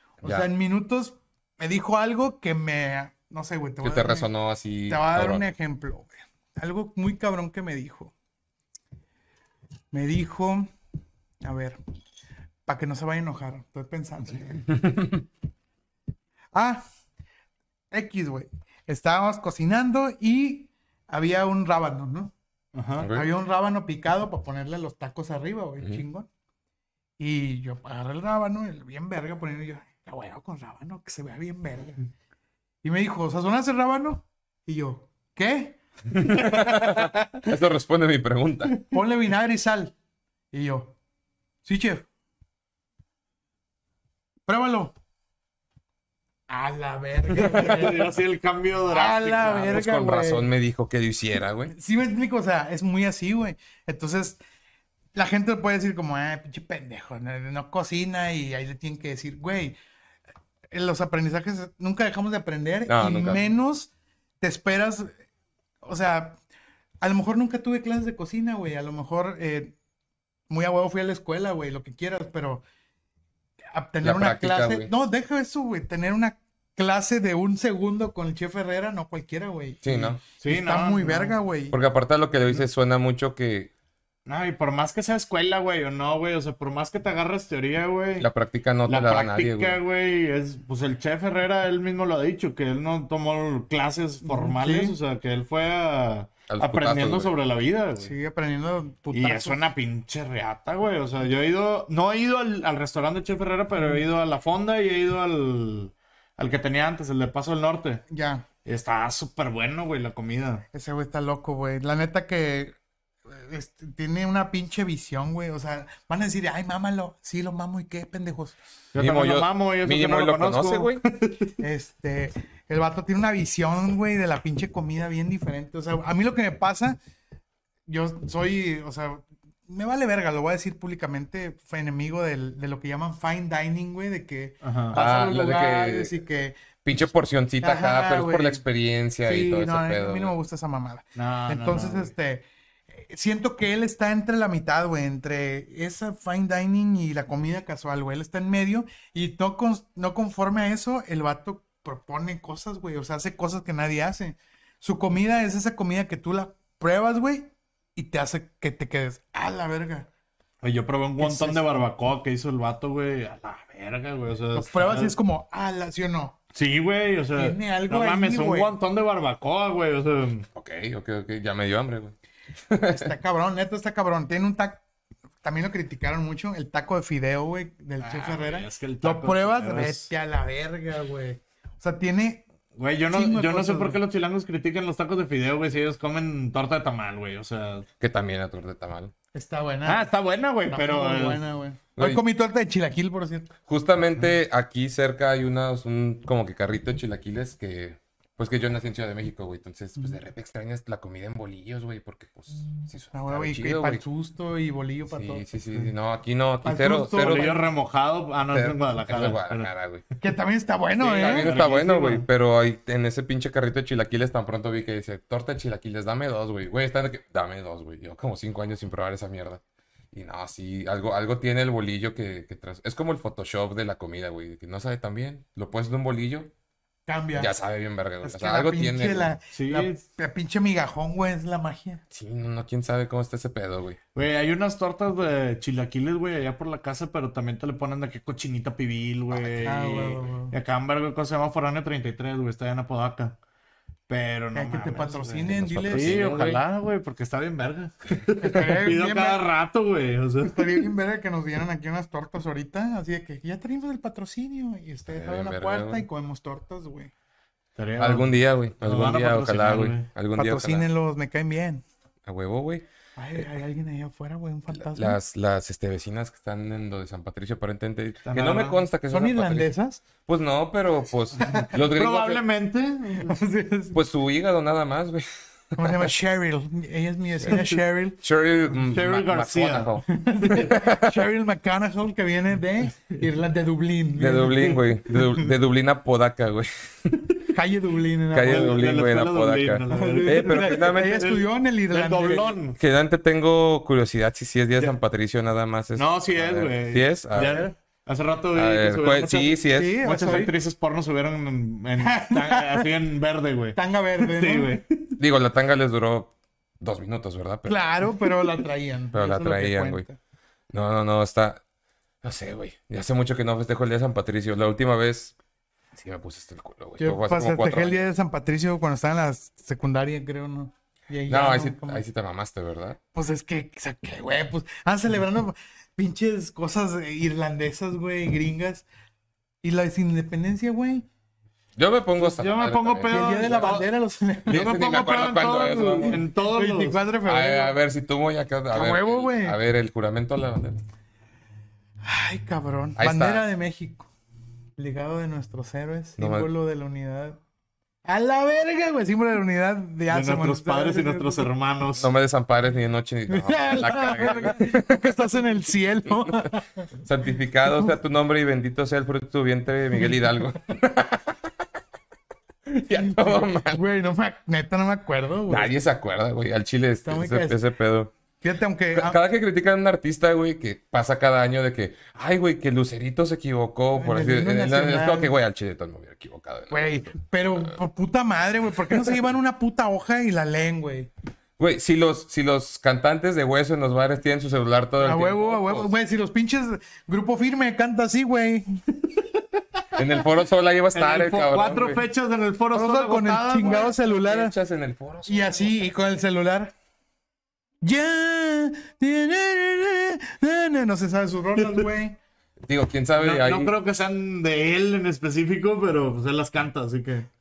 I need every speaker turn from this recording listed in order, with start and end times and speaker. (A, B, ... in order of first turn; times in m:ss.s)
0:00.2-0:00.5 A
0:00.2-0:04.3 B
0:03.8-0:05.5 A
0:04.9-0:08.1 B
0:09.9-0:10.7 B
0:11.4-0:11.8 B
0:12.7-0:14.7 B
0:14.8-0:15.2 A
0:16.5-0:16.8 B
0:17.9-0:22.3 B
0:22.7-0:23.1 C
0:23.0-0:23.3 A
0:23.1-0:26.3 B
0:27.2-0:32.0 B
0:32.8-0:35.8 B
0:36.1-0:38.8 A
0:38.9-0:39.9 B
0:40.5-0:41.0 B
0:41.6-0:42.1 B
0:44.5-0:44.9 B
0:46.5-0:48.1 B
0:47.3-0:49.8 C
0:48.9-0:50.5 B
0:49.5-0:51.7 A
0:51.7-0:54.4 B
0:55.1-0:59.8 B
1:00.7-1:03.9 B
1:02.9-1:03.4 A
1:04.4-1:05.2 B
1:05.8-1:06.4 B
1:07.0-1:09.8 B
1:10.5-1:12.6 B
1:13.7-1:21.8 B
1:14.0-1:14.9 A
1:19.8-1:20.2 A
1:20.4-1:21.4 C
1:21.7-1:23.7 A
1:24.3-1:28.3 C
1:28.2-1:29.8 A
1:28.9-1:38.1 C
1:34.2-1:35.0 B
1:36.5-1:37.4 A
1:38.0-1:39.6 B
1:39.1-1:48.0 C
1:48.1-1:48.4 B
1:48.6-1:50.6 C
1:50.7-1:52.7 B
1:53.3-1:58.6 B
1:58.9-2:01.6 C
1:59.0-2:01.0 A
2:01.6-2:07.0 B
2:07.9-2:16.6 B
2:14.6-2:15.0 C
2:14.9-2:16.2 A
2:16.8-2:20.3 A
2:17.6-2:18.6 B
2:19.2-2:40.1 B
2:21.2-2:22.1 C
2:40.6-2:45.2 C
2:41.2-2:41.8 B
2:44.5-2:46.4 B
2:46.5-2:50.5 C
2:47.4-2:48.7 B
2:50.5-2:52.2 A
2:52.7-2:53.1 A
2:52.8-2:54.8 B
2:55.4-3:02.5 B
2:58.0-3:00.1 C
3:02.8-3:07.9 C
3:03.1-3:04.0 B
3:08.0-3:09.1 A
3:09.3-3:10.1 B
3:09.8-3:11.4 C
3:10.7-3:13.5 B
3:12.0-3:12.2 A
3:13.7-3:24.0 A
3:23.1-3:25.4 B
3:25.1-3:27.6 A
3:26.6-3:27.7 B
3:27.2-3:29.7 C
3:28.5-3:30.0 A
3:30.2-3:31.6 B
3:31.0-3:32.3 C
3:31.1-3:39.6 A
3:40.1-3:46.5 A
3:47.1-3:47.5 B
3:47.4-3:49.3 A
3:48.2-3:52.0 B
3:49.5-3:50.0 C
3:52.1-3:54.0 A
3:54.2-4:03.4 C
3:59.4-3:59.7 A
3:59.6-4:00.5 B
4:04.1-4:10.9 C
4:04.5-4:06.3 B
4:05.5-4:06.6 A
4:08.4-4:09.4 B
4:10.4-4:17.1 B
4:15.1-4:16.0 A
4:17.8-4:20.1 C
4:18.0-4:20.9 A
4:20.4-4:21.8 B
4:22.2-4:22.8 A
4:23.2-4:25.2 B
4:24.8-4:29.7 A
4:28.2-4:28.8 C
4:29.1-4:30.0 B
4:30.2-4:32.4 A
4:31.4-4:31.7 B
4:31.5-4:33.4 C
4:33.2-4:34.0 B
4:33.9-4:35.2 A
4:35.8-4:38.2 B
4:35.8-4:36.1 A
4:37.5-4:37.8 C
4:38.2-4:40.0 A
4:38.9-4:40.7 C
4:40.1-4:44.8 B
4:40.6-4:41.2 A
4:44.2-4:47.3 A
4:47.5-4:48.8 B
4:48.3-4:51.2 A
4:48.5-4:52.8 C
4:49.9-4:52.5 B
4:52.7-4:57.6 A
4:56.0-5:05.1 C
4:57.4-4:57.7 B
4:58.5-5:00.0 A
4:59.7-5:00.5 B
5:02.0-5:02.9 B
5:03.8-5:04.8 B
5:05.2-5:07.9 A
5:07.7-5:10.2 B
5:09.1-5:10.0 A
5:10.7-5:11.6 A
5:12.2-5:15.4 A
5:15.9-5:18.0 A
5:17.0-5:22.0 B
5:21.3-5:23.0 A
5:23.2-5:28.9 B
5:29.6-5:31.1 B
5:31.8-5:33.8 A
5:32.2-5:33.9 C
5:33.1-5:34.9 B
5:34.5-5:36.2 A
5:34.5-5:37.0 C
5:35.5-5:37.8 B
5:37.2-5:40.8 A
5:38.7-5:39.6 B
5:42.0-5:44.1 B
5:43.0-5:43.5 A
5:44.8-5:47.4 B
5:46.2-5:46.5 A
5:48.0-5:51.5 B
5:50.1-5:52.1 C
5:52.0-5:55.2 A
5:53.3-5:56.9 B
5:57.0-6:01.5 A
6:02.7-6:03.8 A
6:02.9-6:05.7 B
6:05.5-6:08.1 A
6:07.0-6:07.6 B
6:08.4-6:09.2 B
6:08.9-6:17.7 A
6:14.0-6:15.3 B
6:16.7-6:21.1 B
6:21.6-6:25.9 A
6:25.0-6:28.8 B
6:30.0-6:32.0 A
6:30.9-6:33.9 C
6:32.7-6:34.6 B
6:33.6-6:35.9 A
6:35.3-6:36.7 B
6:37.8-6:42.2 B
6:41.6-6:41.9 C
6:42.6-6:43.7 A
6:43.2-6:47.3 C